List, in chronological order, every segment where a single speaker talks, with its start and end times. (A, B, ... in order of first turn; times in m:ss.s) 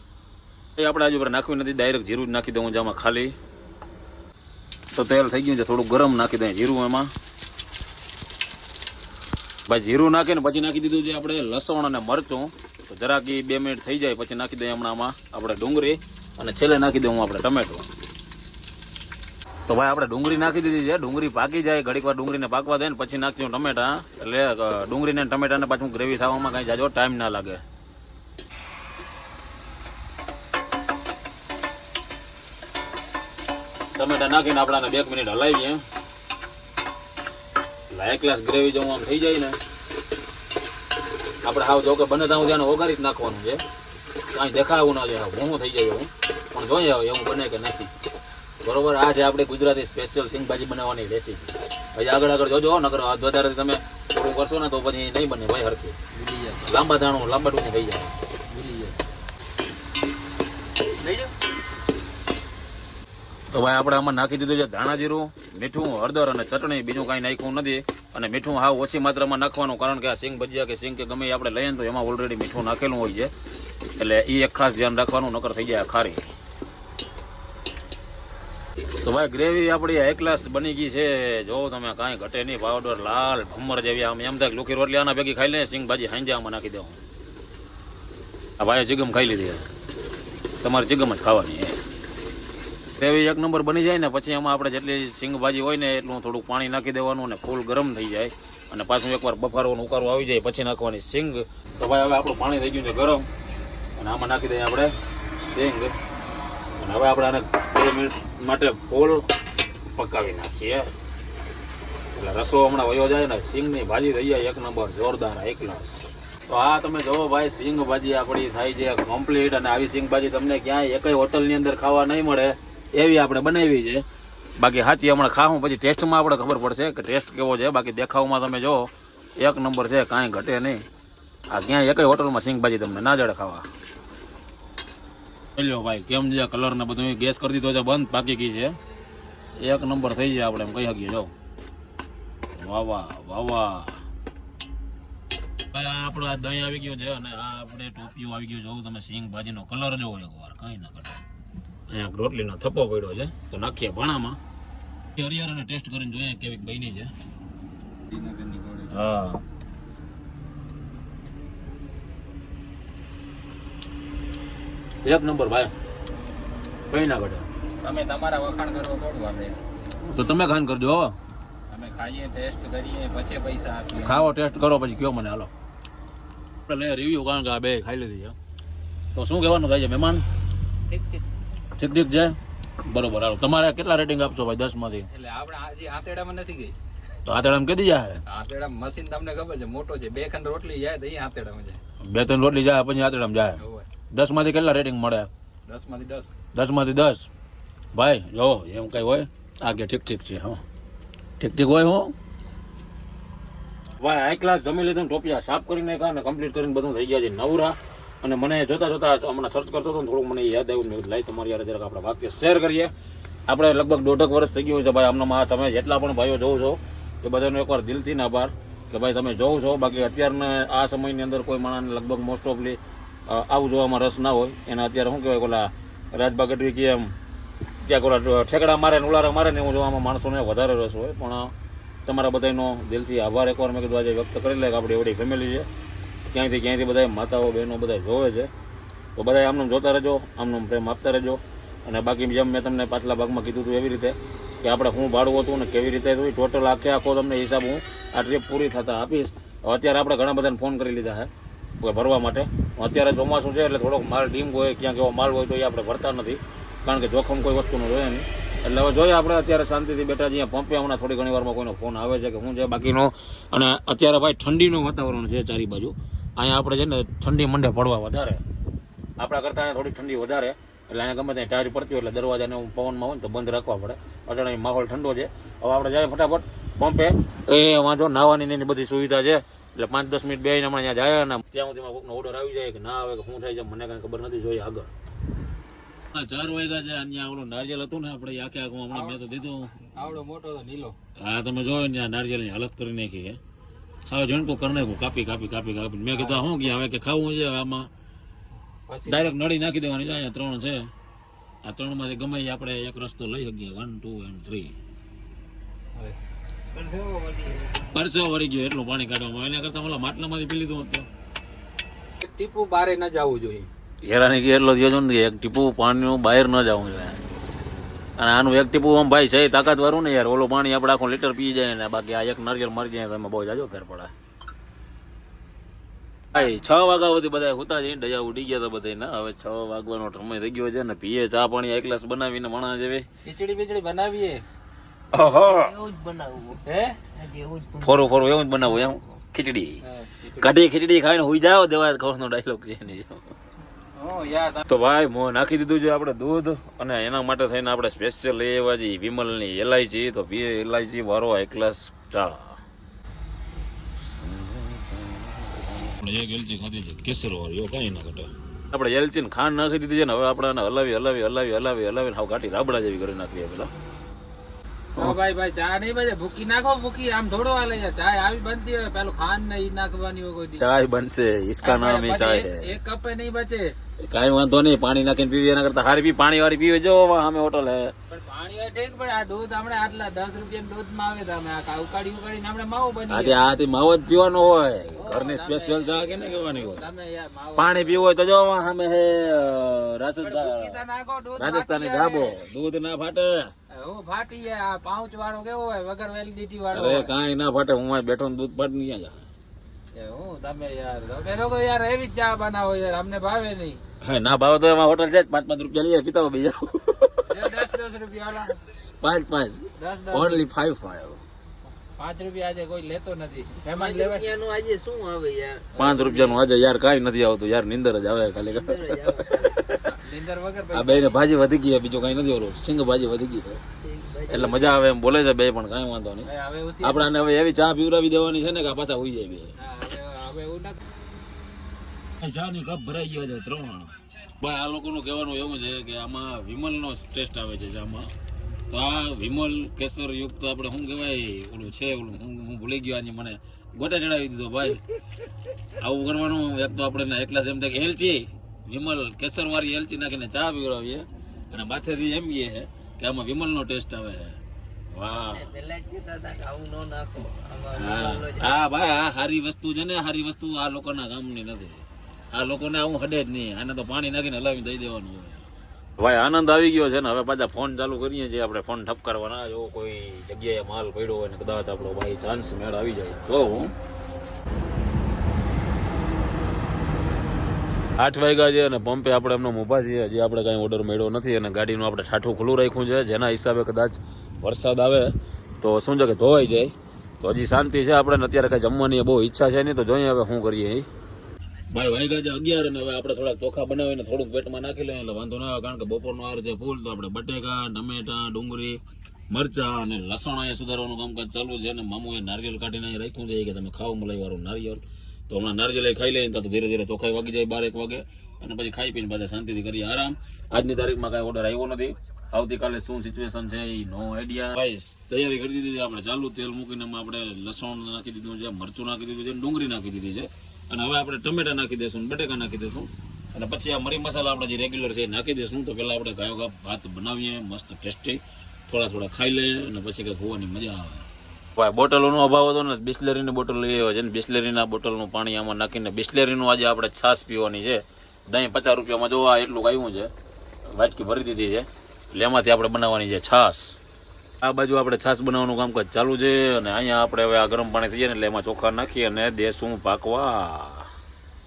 0:00.8-0:03.4 A
0:04.9-0:07.1 A
0:09.7-0:17.9 A
0:19.7-0:27.6 A
0:34.0-0:35.8 A
0:37.9-0:39.6 A
0:41.4-0:43.6 A
0:44.3-0:47.9 A
0:48.6-0:56.0 A
0:56.1-0:56.7 B
0:56.6-0:58.2 A
0:58.5-0:59.0 B
1:03.5-1:13.3 A
1:14.0-1:16.3 A
1:19.0-1:27.0 A
1:28.6-1:29.7 A
1:30.6-1:31.8 A
1:33.0-1:43.3 A
1:44.0-1:46.0 A
1:46.8-1:49.3 A
1:49.9-1:50.9 A
1:52.2-2:04.0 A
2:04.6-2:10.8 A
2:11.5-2:13.7 A
2:15.6-2:18.8 A
2:19.6-2:21.3 A
2:22.5-2:24.0 A
2:25.7-2:31.2 A
2:31.9-2:34.4 A
2:35.2-2:37.1 A
2:38.1-2:38.9 B
2:38.9-2:39.4 A
2:45.0-2:45.7 A
2:46.9-2:47.5 A
2:47.8-2:49.7 B
2:50.0-2:51.2 A
2:51.7-2:54.3 B
2:53.9-2:55.5 A
2:56.7-2:58.4 A
2:59.2-3:00.2 A
3:00.9-3:01.4 B
3:01.8-3:05.1 A
3:05.1-3:06.8 B
3:07.2-3:08.2 A
3:08.3-3:11.8 B
3:12.0-3:15.3 A
3:13.6-3:13.9 B
3:15.7-3:16.4 B
3:16.5-3:17.3 A
3:17.9-3:20.6 A
3:21.4-3:22.2 A
3:24.0-3:32.9 A
3:33.5-3:47.1 A
3:47.8-3:51.5 A
3:52.1-3:55.7 A
3:56.2-3:58.5 A
3:59.2-4:28.4 A
4:29.2-4:44.9 A
4:46.1-4:49.8 A
4:48.9-4:51.0 B
4:51.2-4:53.4 A
4:54.1-4:57.9 A
4:58.9-4:59.4 B
4:59.1-5:00.9 A
5:01.6-5:04.8 A
5:06.8-5:07.7 B
5:06.9-5:07.7 C
5:07.8-5:11.1 A
5:12.2-5:13.7 B
5:14.0-5:17.2 A
5:18.2-5:24.1 A
5:26.3-5:33.1 A
5:33.2-5:34.4 B
5:35.1-5:35.8 A
5:35.4-5:38.1 C
5:36.6-5:37.1 B
5:37.8-5:39.8 A
5:39.8-5:40.6 B
5:40.4-5:43.2 A
5:44.0-5:44.6 B
5:44.7-5:52.6 A
5:54.2-6:03.7 A
6:05.0-6:10.6 B
6:10.6-6:12.8 A
6:11.6-6:13.8 B
6:14.0-6:17.9 A
6:18.1-6:23.4 B
6:23.1-6:26.9 A
6:24.9-6:28.1 B
6:27.6-6:30.8 A
6:30.2-6:32.4 B
6:31.4-6:33.5 A
6:33.7-6:37.1 B
6:36.7-6:39.3 A
6:39.9-6:43.8 B
6:44.0-6:47.7 A
6:47.2-6:48.6 B
6:49.0-6:51.2 A
6:49.8-6:50.5 B
6:52.0-6:54.3 B
6:53.7-6:55.9 C
6:55.8-6:56.4 B
6:55.8-7:00.1 A
6:58.5-6:59.7 C
6:59.8-7:01.2 B
7:00.7-7:03.6 A
7:03.8-7:04.8 C
7:04.3-7:09.5 A
7:06.2-7:07.1 B
7:09.6-7:10.8 B
7:12.2-7:18.1 A
7:18.7-7:24.9 A
7:25.8-7:34.4 A
7:34.9-7:35.5 A
7:35.3-7:38.6 C
7:37.8-7:45.5 A
7:46.0-7:53.7 A
7:58.0-8:10.9 A
8:11.7-9:00.1 A
9:00.7-9:03.8 A
9:04.4-9:10.9 A